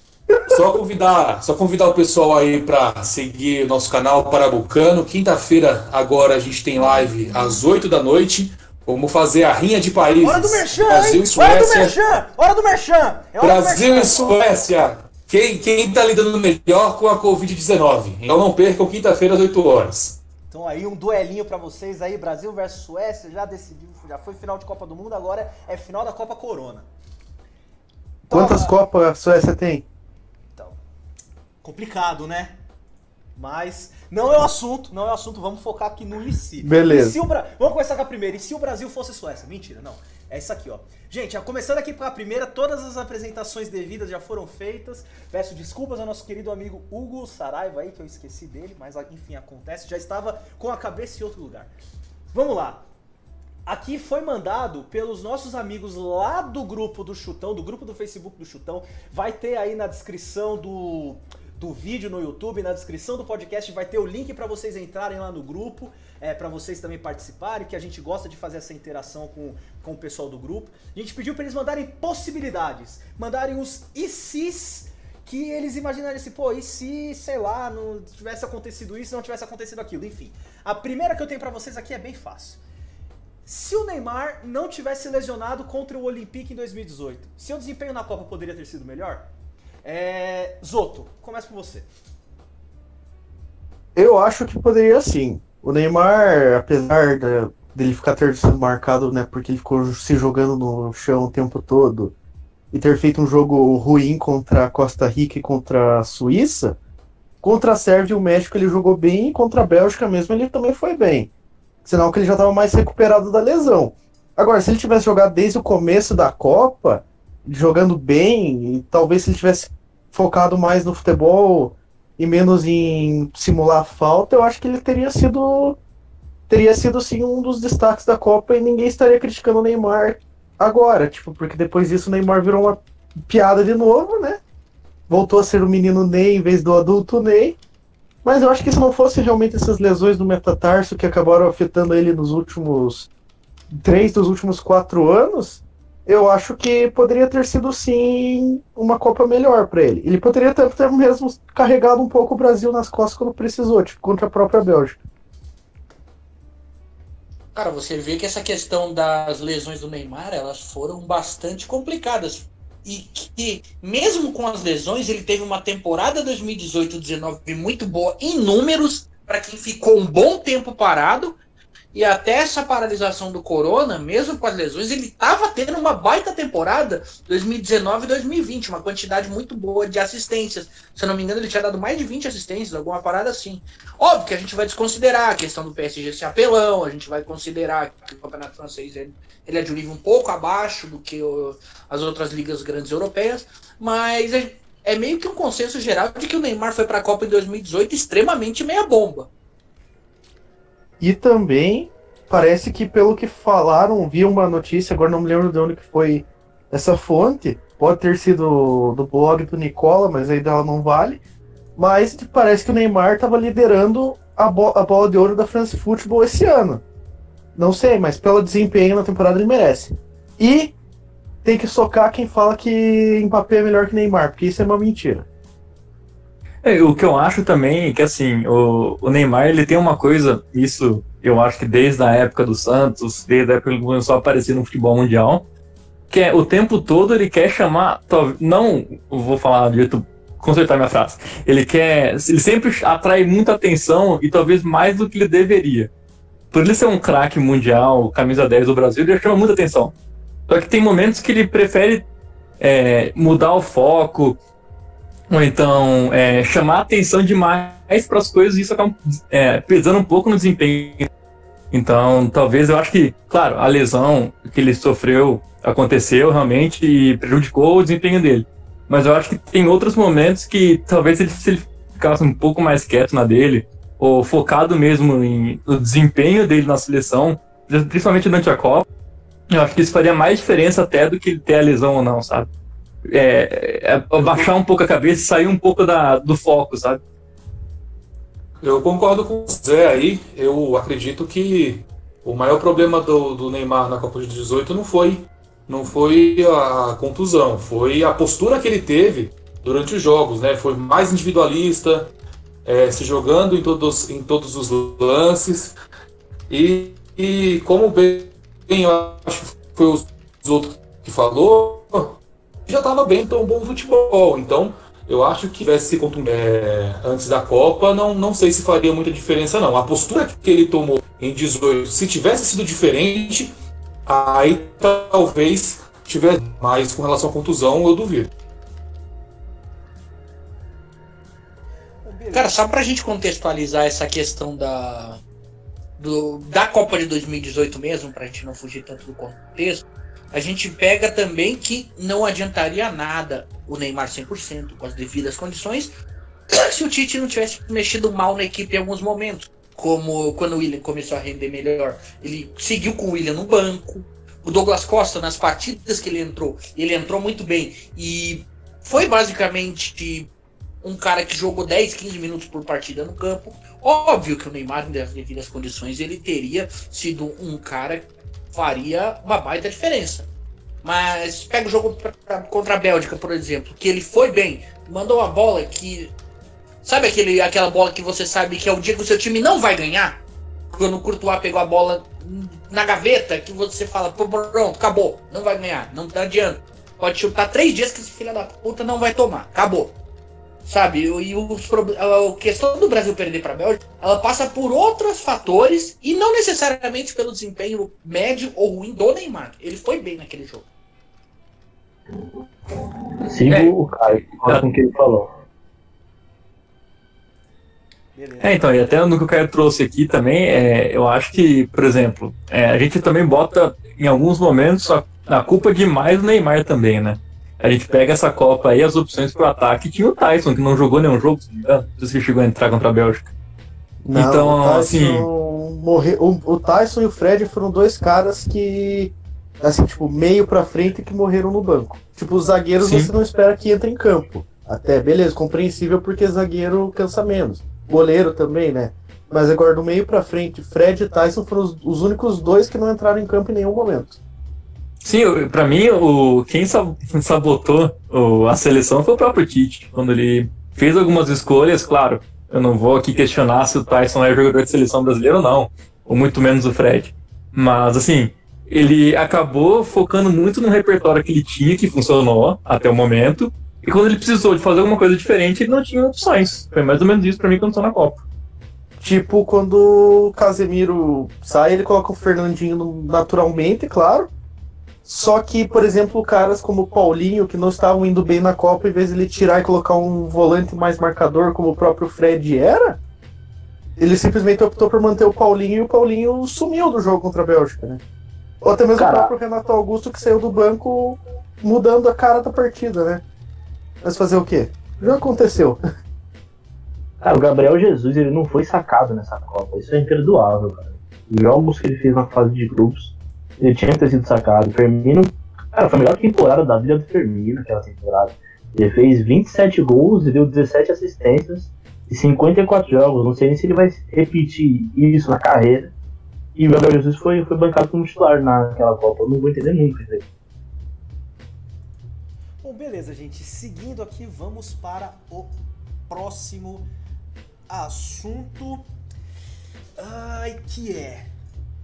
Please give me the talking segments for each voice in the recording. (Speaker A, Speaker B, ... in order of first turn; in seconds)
Speaker A: 0.5-11.9, 13.4-20.2, 288.6-302.1, 302.6-305.7, 306.5-323.5, 324.1-328.3
Speaker B: 10.2-14.4, 20.5-26.9, 28.3-28.7, 31.6-32.6, 33.4-51.7, 52.3-52.9, 53.6-82.6, 83.5-89.3, 89.8-91.9, 332.0-332.6, 408.1-408.9, 522.6-525.5, 526.1-526.9, 527.7-528.9, 530.0-531.3
Speaker C: 28.3-29.9, 36.6-37.2, 93.9-102.1, 102.7-106.8, 107.4-111.3, 111.8-125.8, 126.5-134.4, 135.1-137.6, 138.2-143.1, 143.7-155.0, 201.0-211.2, 211.8-216.8, 217.5-220.7, 221.4-225.2, 424.0-444.2, 469.0-474.3, 475.1-483.0, 484.0-488.0, 488.6-493.2, 494.0-495.8
Speaker D: 157.5-171.4, 171.9-199.3, 332.3-335.2, 336.0-345.9, 346.5-360.3, 360.8-370.3, 370.8-376.1, 376.8-380.2, 380.7-389.9, 390.6-400.6
Speaker E: 226.6-235.4, 236.1-245.9, 246.5-249.9, 250.5-252.1, 252.6-254.4, 255.3-261.1, 261.7-278.8, 279.5-282.5, 283.1-287.0, 403.4-404.7, 408.4-423.3, 424.1-425.3, 432.8-433.1, 445.0-468.2
Speaker F: 403.2-405.3, 488.9-489.3, 497.2-515.9, 516.5-520.2